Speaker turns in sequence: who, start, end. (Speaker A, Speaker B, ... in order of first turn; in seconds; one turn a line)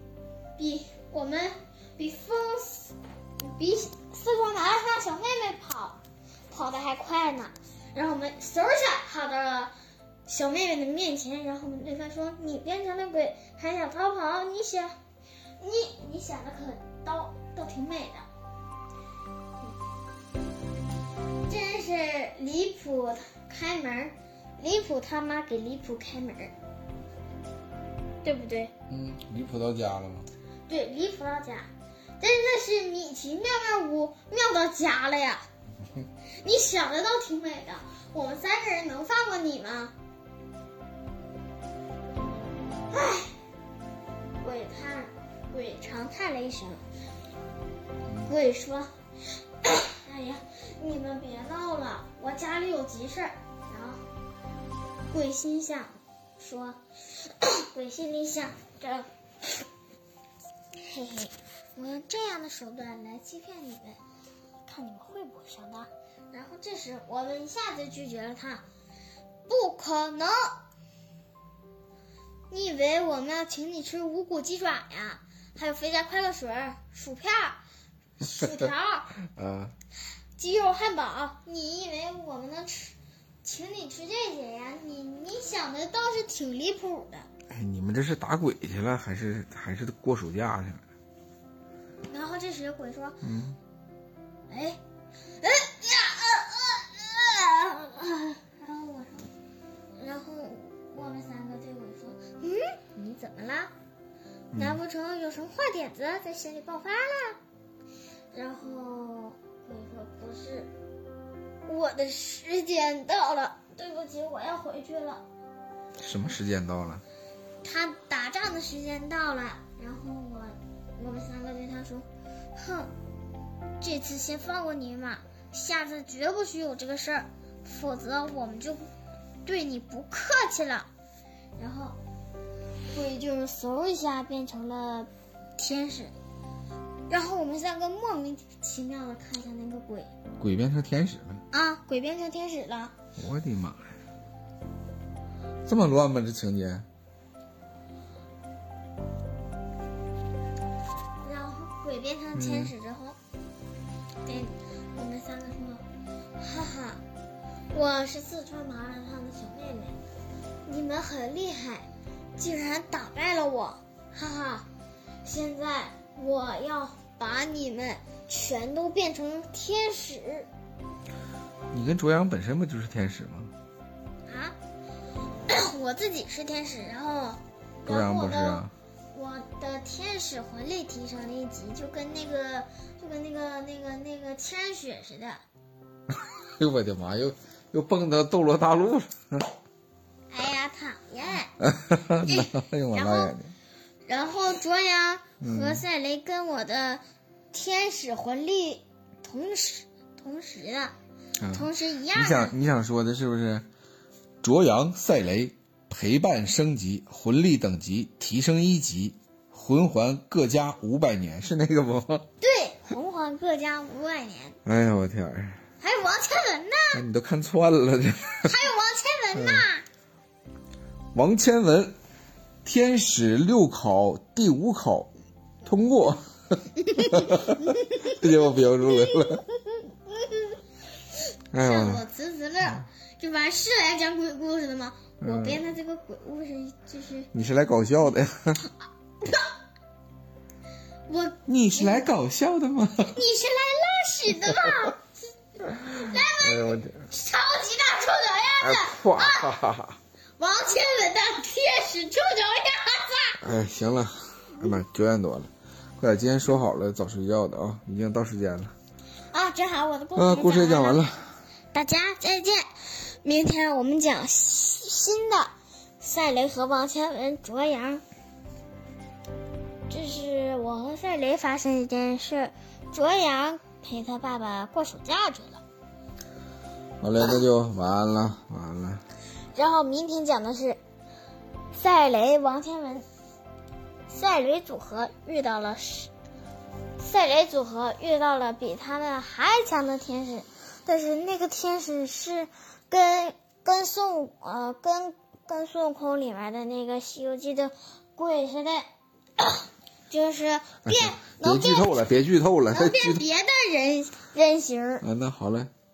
Speaker A: 0.6-6.0
Speaker A: 6.5-9.7
Speaker A: 10.2-14.9
Speaker A: 15.6-18.2
Speaker A: 21.5-26.5
Speaker A: 28.2-28.7
Speaker B: 28.9-30.3
Speaker A: 30.7-35.4
Speaker A: 36.4-39.9
Speaker A: 42.9-43.4
Speaker A: 44.4-46.8
Speaker A: 48.2-48.9
Speaker A: 49.6-54.0
Speaker A: 55.1-59.1
Speaker A: 60.8-64.0
Speaker A: 64.6-68.6
Speaker A: 69.5-70.5
Speaker A: 72.5-77.6
Speaker A: 78.2-79.1
Speaker B: 79.3-79.7
Speaker A: 80.3-87.3
Speaker B: 87.5-90.8
Speaker A: 92.1-93.2
Speaker B: 93.2-93.6
Speaker A: 94.5-94.8
Speaker A: 95.4-99.3
Speaker A: 99.9-103.7
Speaker B: 104.5-104.8
Speaker A: 104.5-107.4
Speaker A: 108.3-110.7
Speaker A: 111.7-115.2
Speaker B: 116.0-117.0
Speaker A: 117.6-122.9
Speaker A: 123.8-128.8
Speaker A: 129.4-130.9
Speaker A: 131.6-132.0
Speaker A: 132.9-136.1
Speaker A: 137.1-140.1
Speaker B: 140.4-141.4
Speaker A: 141.5-142.9
Speaker B: 143.2-143.8
Speaker B: 145.7-146.8
Speaker A: 151.2-153.2
Speaker B: 152.3-152.7
Speaker A: 154.2-155.8
Speaker A: 156.4-157.0
Speaker A: 157.7-160.0
Speaker A: 160.7-164.7
Speaker A: 165.2-170.5
Speaker B: 171.7-173.5
Speaker A: 174.3-174.5
Speaker A: 175.5-185.4
Speaker B: 177.9-178.7
Speaker B: 186.6-189.4
Speaker A: 190.3-191.5
Speaker B: 191.6-193.5
Speaker A: 192.2-193.3
Speaker A: 194.1-200.9
Speaker B: 195.4-195.8
Speaker B: 201.4-203.7
Speaker A: 201.5-202.5
Speaker B: 204.4-212.2
Speaker A: 212.4-214.6
Speaker B: 214.6-215.6
Speaker A: 215.8-217.0
Speaker B: 216.9-218.5
Speaker A: 218.4-219.8
Speaker B: 219.3-219.6
Speaker B: 221.1-221.9
Speaker B: 222.6-225.1
Speaker B: 225.6-226.2
Speaker B: 226.9-229.4
Speaker A: 227.0-228.0
Speaker A: 228.9-229.4
Speaker A: 230.1-230.5
Speaker B: 231.5-232.0
Speaker A: 231.6-237.3
Speaker B: 235.2-235.6
Speaker B: 237.3-238.6
Speaker A: 241.1-242.1
Speaker B: 241.5-243.2
Speaker A: 243.1-245.1
Speaker A: 245.7-249.5
Speaker B: 245.9-247.0
Speaker B: 248.6-250.0
Speaker A: 250.4-253.4
Speaker B: 253.4-258.7
Speaker A: 259.3-261.0
Speaker B: 260.1-261.4
Speaker A: 261.7-268.0
Speaker A: 269.9-275.6
Speaker B: 277.0-279.0
Speaker A: 279.5-280.8
Speaker A: 281.7-283.1
Speaker A: 284.1-286.1
Speaker A: 287.0-298.8
Speaker A: 299.4-302.0
Speaker B: 300.9-303.2
Speaker A: 302.7-305.0
Speaker B: 305.0-305.7